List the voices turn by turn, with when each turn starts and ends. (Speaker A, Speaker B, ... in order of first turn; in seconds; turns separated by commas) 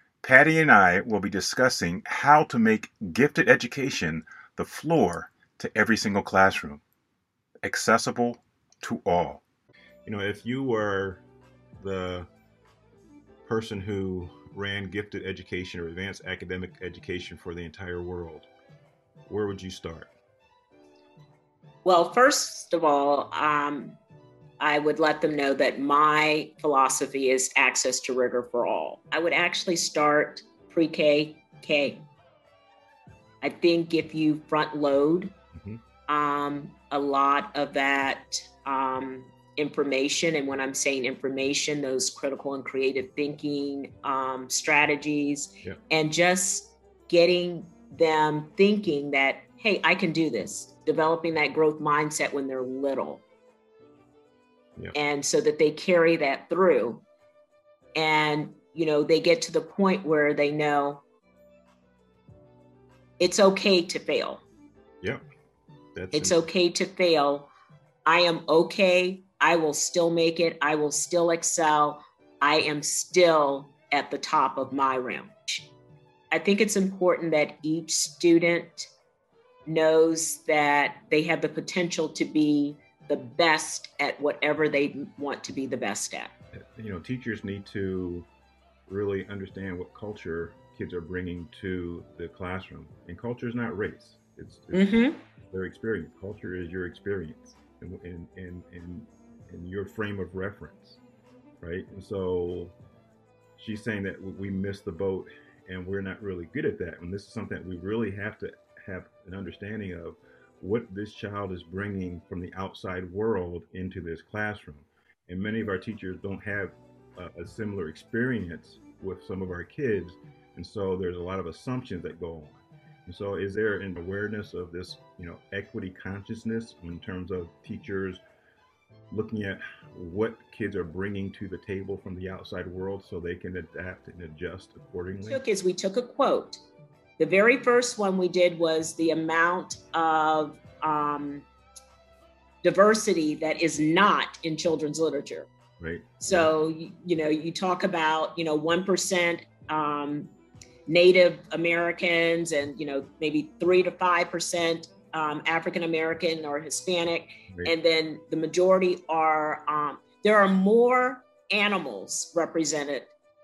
Speaker A: 0.2-6.8, Speaker A: 7.6-9.4, Speaker A: 10.0-11.2, Speaker A: 11.8-12.3, Speaker A: 13.4-18.5, Speaker A: 19.3-20.1, Speaker B: 21.8-24.0, Speaker B: 24.6-32.0, Speaker B: 33.4-35.3, Speaker A: 35.5-35.8, Speaker B: 36.1-53.2, Speaker B: 54.9-57.0, Speaker B: 57.9-61.0, Speaker B: 63.2-64.4, Speaker A: 65.9-66.4, Speaker B: 66.1-67.5, Speaker B: 68.0-75.7, Speaker B: 76.3-78.9, Speaker B: 79.7-86.3, Speaker A: 86.8-88.3, Speaker A: 88.9-94.9, Speaker B: 94.7-95.2, Speaker A: 95.5-101.0, Speaker A: 101.6-102.7, Speaker A: 103.6-128.2, Speaker A: 129.1-135.4, Speaker B: 135.2-136.6, Speaker B: 137.2-141.4, Speaker B: 142.6-145.5, Speaker A: 145.8-146.5, Speaker B: 146.2-150.3, Speaker B: 150.9-163.1